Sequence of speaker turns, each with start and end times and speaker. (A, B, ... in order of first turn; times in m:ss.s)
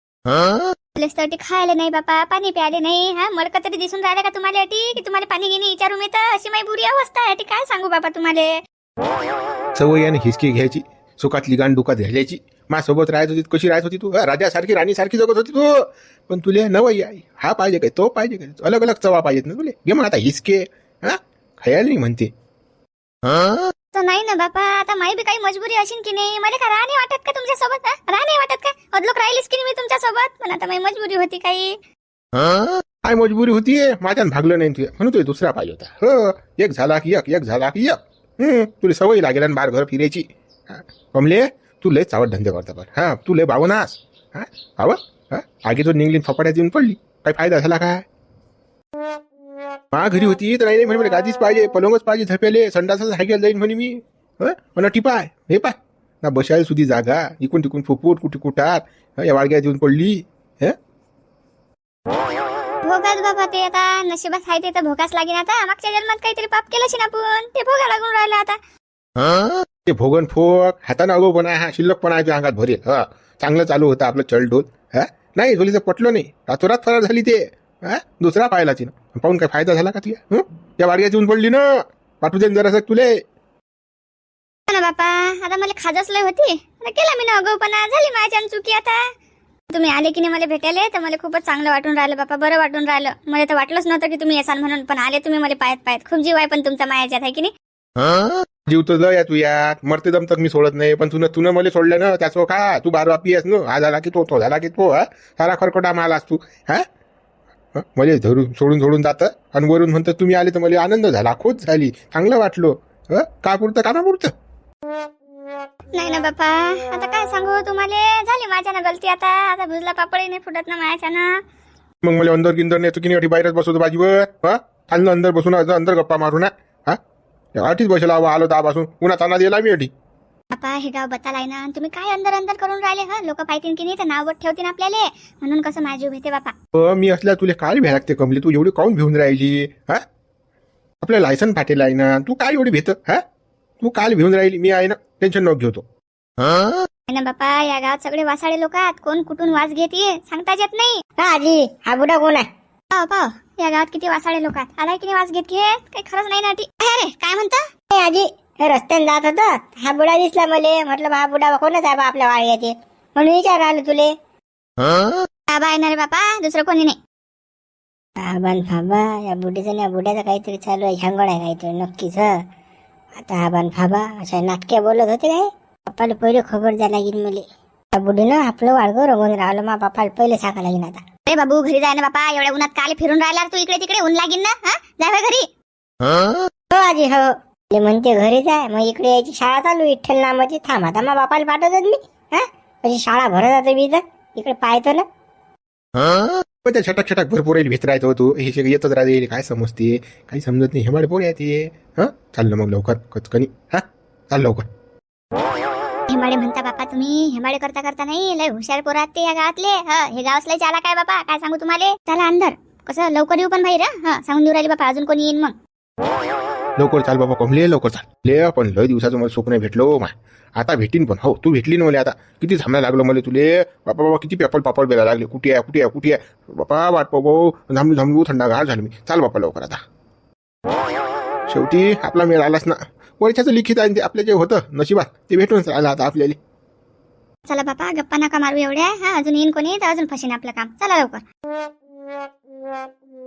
0:01.0-0:08.6 A
0:09.8-0:22.3 B
0:23.9-0:31.8 A
0:32.5-0:48.0 B
0:49.9-1:00.8 B
1:02.8-1:08.6 A
1:09.9-1:23.2 B
1:24.7-1:29.1 A
1:29.7-1:37.5 A
1:38.7-1:46.8 B
1:47.8-1:54.3 B
1:55.9-2:01.4 A
2:02.0-2:07.0 B
2:07.6-2:09.9 B
2:10.5-2:16.5 A
2:16.7-2:20.0 B
2:21.0-2:23.2 B
2:23.8-2:25.8 B
2:26.4-2:31.0 A
2:31.2-2:32.5 C
2:32.9-2:37.6 A
2:37.9-2:44.1 C
2:44.9-2:47.0 A
2:48.2-2:52.4 C
2:53.2-3:01.0 C
3:01.3-3:05.5 A
3:06.7-3:15.0 C
3:16.2-3:24.7 B
3:26.1-3:35.6 A
3:36.8-3:49.8 B
3:51.5-3:56.4 B
3:57.5-4:01.2 A